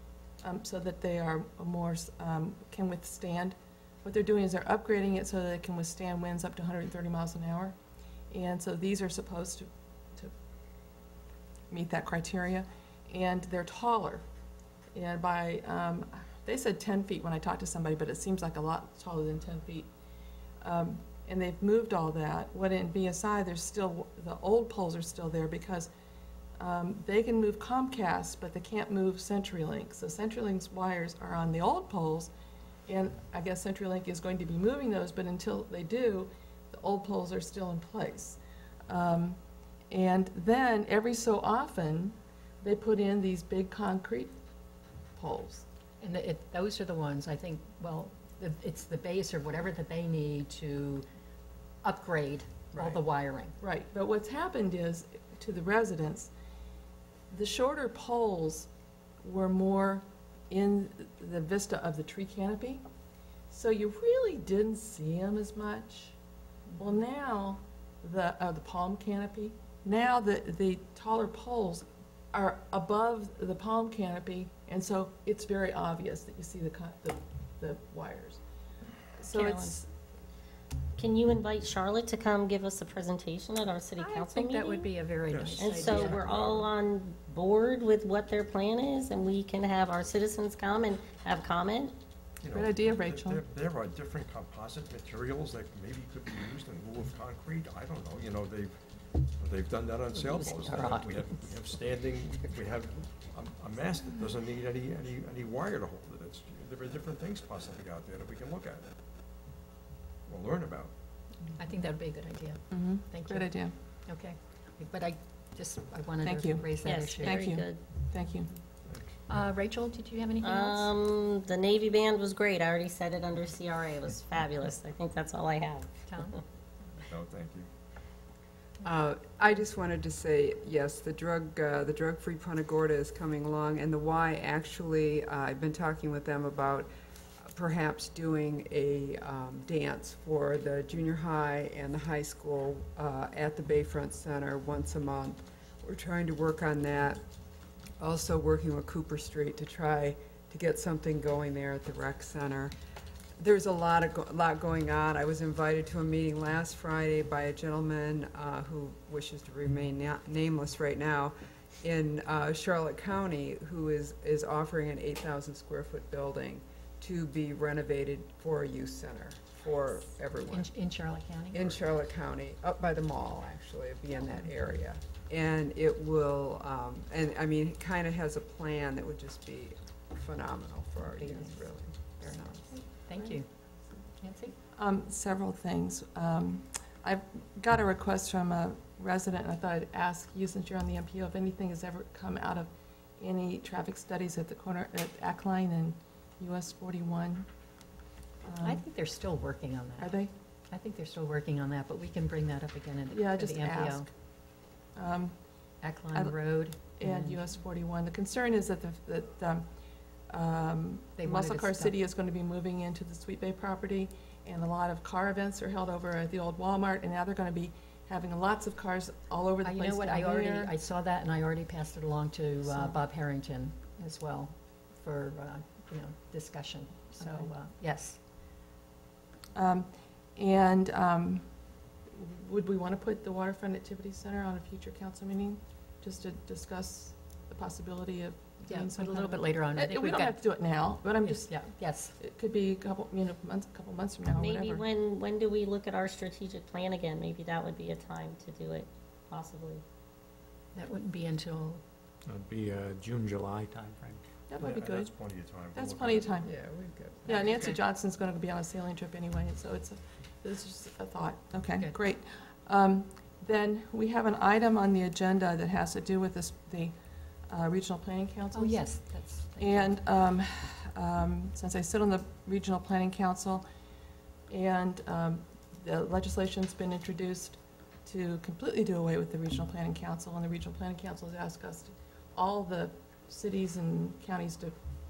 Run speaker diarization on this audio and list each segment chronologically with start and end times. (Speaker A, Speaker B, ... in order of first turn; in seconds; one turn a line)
Speaker A: 0.4-7.8
Speaker A: 8.3-10.3
Speaker A: 11.7-14.2
Speaker A: 14.9-19.9
Speaker A: 20.6-25.9
Speaker A: 26.6-32.3
Speaker A: 32.9-44.4
Speaker A: 45.1-45.6
Speaker B: 46.0-51.0
Speaker B: 51.9-53.5
Speaker A: 53.6-56.3
Speaker A: 57.3-58.7
Speaker A: 59.2-62.8
Speaker A: 63.5-66.2
Speaker A: 66.8-78.4
Speaker A: 79.2-79.9
Speaker C: 79.3-79.8
Speaker C: 81.0-84.9
Speaker B: 84.0-86.2
Speaker D: 85.3-86.7
Speaker C: 85.6-91.9
Speaker D: 92.4-108.9
Speaker A: 92.5-93.4
Speaker B: 100.3-101.1
Speaker D: 110.3-110.9
Speaker B: 111.6-113.5
Speaker A: 112.7-113.7
Speaker B: 114.0-117.3
Speaker A: 116.2-116.7
Speaker C: 116.8-117.8
Speaker A: 117.2-118.5
Speaker D: 118.8-119.2
Speaker B: 119.3-120.8
Speaker C: 120.4-125.9
Speaker B: 126.1-126.3
Speaker D: 127.0-127.7
Speaker E: 128.8-136.9
Speaker E: 137.5-147.2
Speaker E: 148.0-152.7
Speaker E: 153.4-170.7
Speaker B: 170.5-171.8
Speaker E: 171.5-183.0
Speaker B: 181.2-181.6
Speaker B: 182.4-183.5
Speaker B: 184.2-184.6
Speaker A: 184.7-197.5
Speaker A: 198.4-198.8
Speaker B: 198.6-200.1
Speaker A: 200.0-200.3
Speaker B: 200.7-204.1
Speaker A: 203.1-204.0
Speaker A: 204.9-205.3
Speaker B: 205.8-207.5
Speaker A: 206.1-206.4
Speaker A: 207.0-209.7
Speaker A: 210.3-220.7
Speaker B: 211.2-212.0
Speaker B: 219.6-228.2
Speaker A: 229.5-231.5
Speaker A: 232.1-241.5
Speaker B: 238.7-240.3
Speaker B: 241.2-242.1
Speaker A: 242.2-244.8
Speaker C: 244.3-249.8
Speaker B: 250.8-251.8
Speaker F: 252.2-254.2
Speaker A: 254.5-255.1
Speaker D: 254.6-256.5
Speaker A: 255.7-256.5
Speaker E: 256.4-257.8
Speaker A: 257.2-267.0
Speaker A: 267.5-268.8
Speaker B: 268.5-269.9
Speaker A: 269.6-273.7
Speaker A: 274.5-284.8